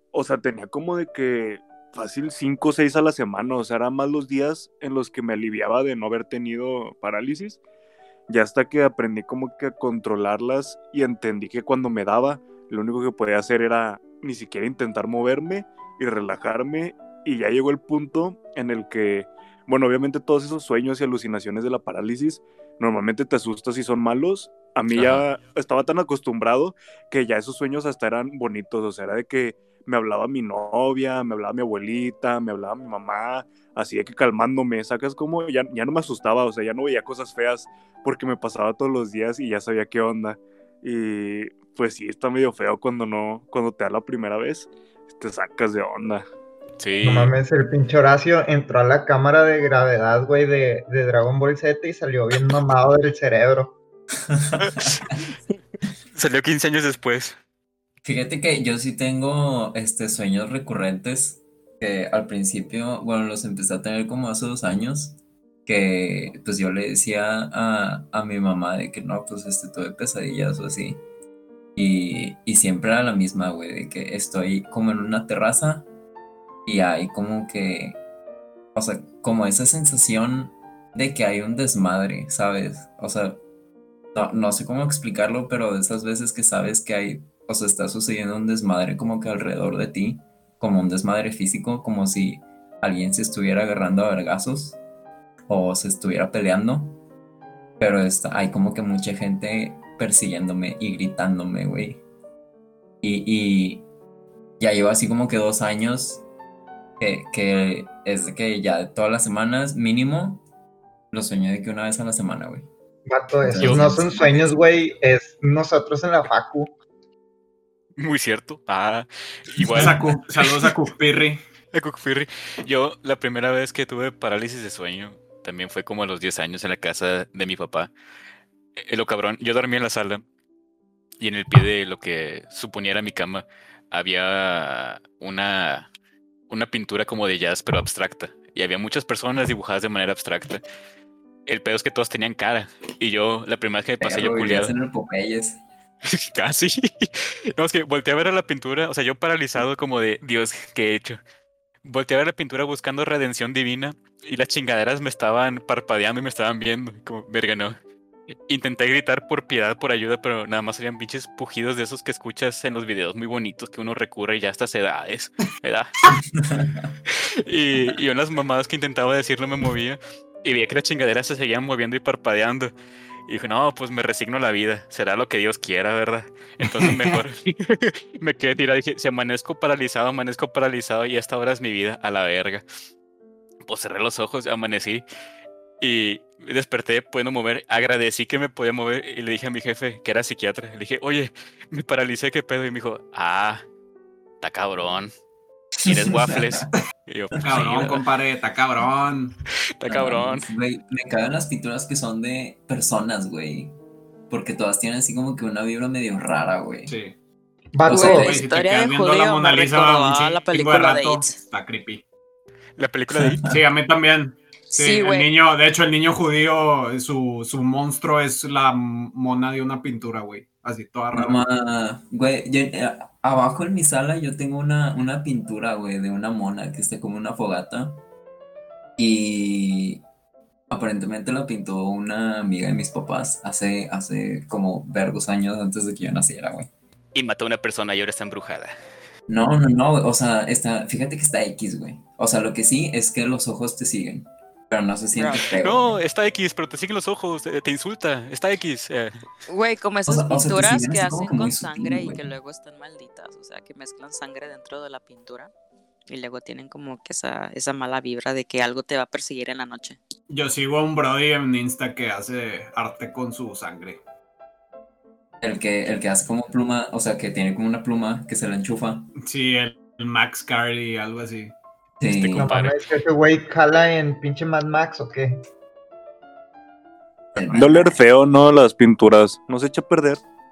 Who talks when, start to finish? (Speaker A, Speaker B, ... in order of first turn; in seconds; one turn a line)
Speaker A: 0.1-7.6
Speaker A: 8.3-46.3
Speaker B: 24.9-25.2
Speaker B: 46.8-47.3
Speaker C: 47.0-53.8
Speaker D: 54.3-55.1
Speaker B: 54.6-55.1
Speaker B: 56.1-57.4
Speaker D: 58.0-71.0
Speaker D: 71.8-75.9
Speaker D: 76.7-78.0
Speaker D: 78.7-83.4
Speaker D: 84.1-94.8
Speaker D: 95.5-97.0
Speaker D: 97.8-102.0
Speaker D: 103.0-103.8
Speaker D: 104.6-106.2
Speaker D: 107.0-110.4
Speaker D: 111.1-112.7
Speaker C: 113.1-116.7
Speaker D: 113.4-114.5
Speaker B: 113.6-114.1
Speaker B: 118.0-120.1
Speaker D: 119.6-119.9
Speaker E: 119.7-121.4
Speaker B: 121.7-127.9
Speaker B: 128.8-130.2
Speaker B: 131.2-135.9
Speaker B: 136.5-140.6
Speaker B: 141.5-144.7
Speaker D: 144.0-145.6
Speaker B: 146.1-151.2
Speaker B: 151.8-157.7
Speaker B: 158.5-165.9
Speaker D: 166.3-166.9
Speaker B: 167.1-172.7
Speaker B: 173.3-182.6
Speaker E: 176.8-177.2
Speaker B: 183.6-185.0
Speaker B: 185.8-193.6
Speaker B: 194.4-195.1
Speaker B: 195.8-198.0
Speaker D: 195.8-196.7
Speaker E: 197.4-199.3
Speaker B: 199.8-200.4
Speaker D: 199.8-203.7
Speaker D: 204.3-206.9
Speaker E: 206.9-207.1
Speaker C: 207.7-208.2
Speaker D: 207.8-208.4
Speaker F: 207.9-211.3
Speaker E: 208.0-212.0
Speaker B: 212.8-213.5
Speaker D: 213.1-213.4
Speaker E: 213.5-221.4
Speaker F: 214.7-215.3
Speaker D: 221.1-228.0
Speaker D: 229.0-230.0
Speaker D: 230.7-236.7
Speaker B: 237.1-238.7
Speaker D: 239.3-246.0
Speaker F: 245.1-245.5
Speaker B: 245.5-249.2
Speaker F: 249.5-255.5
Speaker D: 250.1-252.3
Speaker F: 256.1-260.0
Speaker E: 260.3-264.0
Speaker D: 265.4-269.1
Speaker E: 269.2-271.5
Speaker D: 272.0-272.5
Speaker B: 272.1-272.8
Speaker C: 272.4-275.4
Speaker D: 277.3-278.0
Speaker A: 277.5-280.2